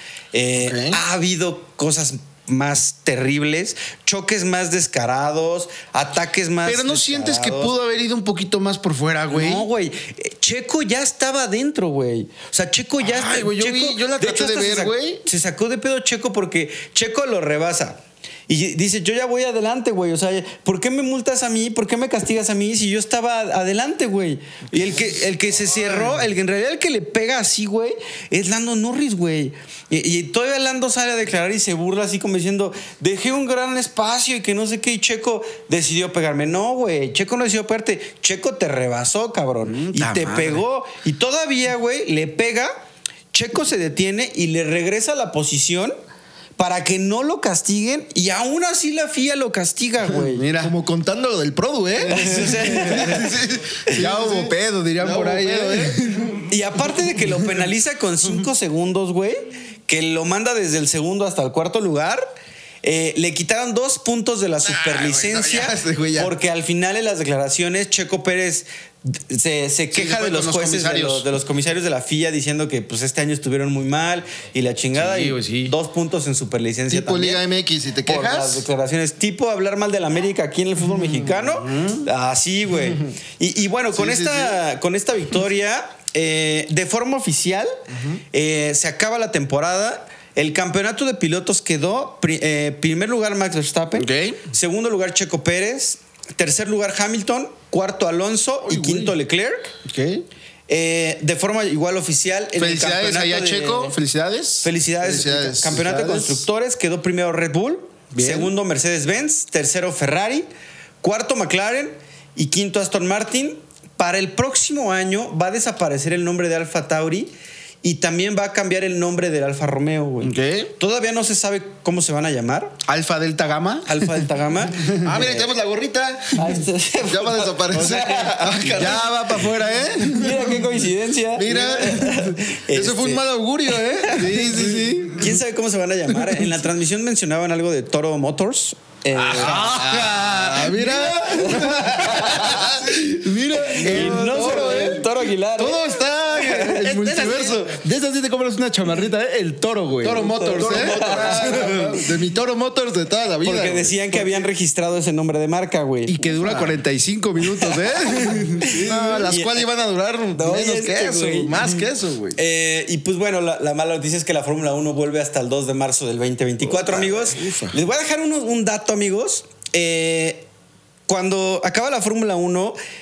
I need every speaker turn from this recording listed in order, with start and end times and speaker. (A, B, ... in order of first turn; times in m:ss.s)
0:00.3-0:07.8 A
0:00.6-0:01.0 B
0:06.6-0:09.7 C
0:09.3-0:42.7 A
0:13.0-0:15.2 C
0:39.7-0:40.6 C
0:43.3-0:46.0 A
0:46.6-0:50.5 A
0:50.1-0:50.8 C
0:50.6-0:56.4 B
0:52.1-0:53.3 A
0:52.1-0:53.4 C
0:53.9-0:56.4 C
0:56.5-1:02.2 A
1:02.8-1:17.4 A
1:04.7-1:05.7 C
1:05.5-1:06.3 B
1:09.9-1:11.2 C
1:15.0-1:15.7 C
1:16.9-1:18.6 B
1:18.0-1:27.7 A
1:21.3-1:22.1 C
1:24.0-1:24.6 B
1:27.9-1:28.2 B
1:28.3-1:39.7 A
1:34.0-1:34.4 C
1:38.7-1:39.1 C
1:39.8-1:40.2 C
1:40.7-1:43.9 A
1:42.6-1:44.7 C
1:44.6-1:50.5 A
1:45.0-1:45.8 B
1:45.6-1:46.5 C
1:48.1-1:48.5 C
1:51.0-1:57.3 A
1:57.8-2:02.8 A
2:00.2-2:00.7 C
2:02.9-2:04.2 C
2:03.9-2:05.5 A
2:04.8-2:05.2 C
2:05.0-2:09.1 B
2:06.4-2:08.9 A
2:07.8-2:10.5 C
2:10.0-2:10.4 B
2:10.1-2:13.2 A
2:11.3-2:15.0 B
2:13.9-2:14.2 A
2:14.1-2:15.3 C
2:15.2-2:20.2 A
2:19.2-2:25.1 C
2:20.2-2:27.7 B
2:21.4-2:22.6 A
2:23.8-2:25.8 A
2:26.4-2:32.1 C
2:29.9-2:34.0 B
2:30.2-2:31.9 A
2:33.4-2:36.7 A
2:36.1-2:39.2 C
2:37.4-2:39.6 A
2:38.8-2:42.4 B
2:40.4-2:41.6 A
2:42.4-2:50.5 A
2:46.7-2:47.8 B
2:51.1-2:52.8 A